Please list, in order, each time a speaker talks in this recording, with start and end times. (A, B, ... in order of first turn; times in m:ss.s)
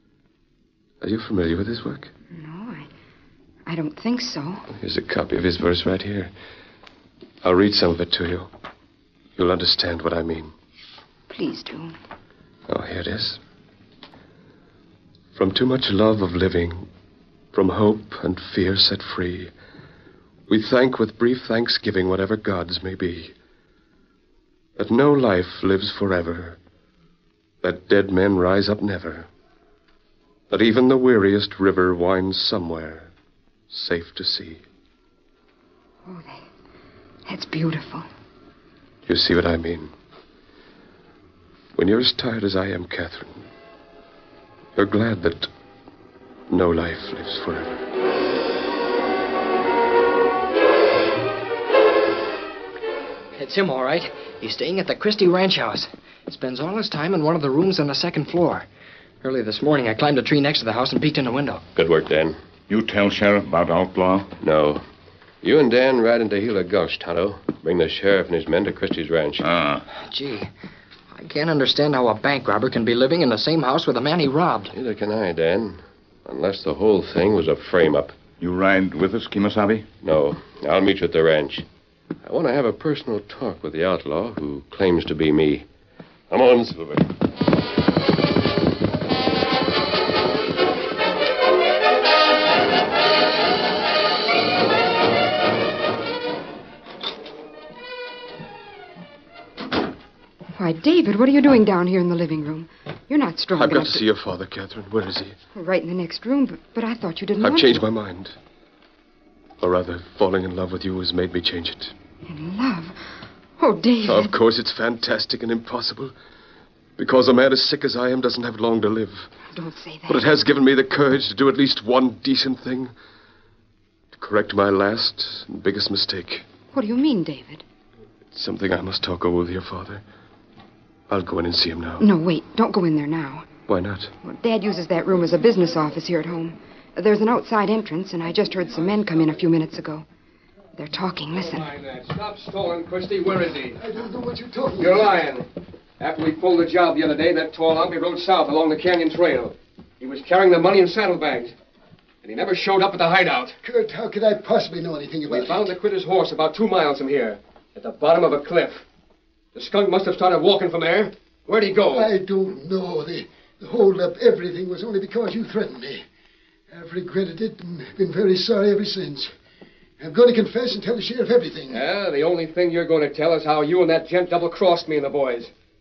0:01.0-0:02.1 A
0:02.3-0:02.9 B
0:03.6-0:04.6 B
0:04.7-0:06.3 A
0:07.4-0:08.5 A
0:09.4-0:10.5 A
0:11.3-0:11.9 B
0:12.7-0:13.4 A
0:15.3-0:16.8 A
0:17.5-0:19.5 A
0:20.5-0:23.3 A
0:24.8-0:26.6 A
0:27.6-0:29.3 A
0:30.5-0:33.1 A
0:33.7-0:34.6 A
0:36.0-0:36.4 B
0:37.2-0:38.0 B
0:39.0-0:39.9 A
0:41.7-0:43.4 A
0:44.8-0:45.5 A
0:46.5-0:47.8 A
0:53.3-0:58.6 C
0:59.2-1:01.6 C
1:01.7-1:02.4 D
1:02.7-1:04.3 E
1:04.4-1:04.8 D
1:05.4-1:09.5 D
1:09.4-1:09.8 E
1:10.0-1:10.5 C
1:11.1-1:14.7 C
1:14.7-1:18.2 D
1:18.4-1:19.9 E
1:20.0-1:21.6 D
1:22.2-1:25.7 D
1:26.3-1:27.1 D
1:40.5-1:44.0 B
1:43.5-1:45.4 A
1:45.5-1:47.8 B
1:47.4-1:48.4 A
1:49.6-1:51.9 A
1:52.3-1:53.0 B
1:53.6-1:54.3 B
1:54.0-1:56.1 A
1:57.0-1:59.3 A
1:59.5-2:00.4 B
2:00.1-2:02.9 A
2:04.1-2:06.4 A
2:06.7-2:07.6 B
2:08.3-2:10.0 A
2:11.1-2:12.1 A
2:12.0-2:13.5 B
2:13.7-2:14.1 A
2:14.2-2:20.0 B
2:20.8-2:21.7 B
2:21.4-2:23.8 F
2:23.8-2:25.2 G
2:24.8-2:25.4 F
2:26.0-2:31.5 F
2:32.2-2:33.6 F
2:33.6-2:35.7 G
2:35.3-2:38.8 F
2:39.5-2:42.1 F
2:41.8-2:46.0 G
2:46.7-2:49.3 G
2:50.0-2:51.9 G
2:51.7-2:55.5 F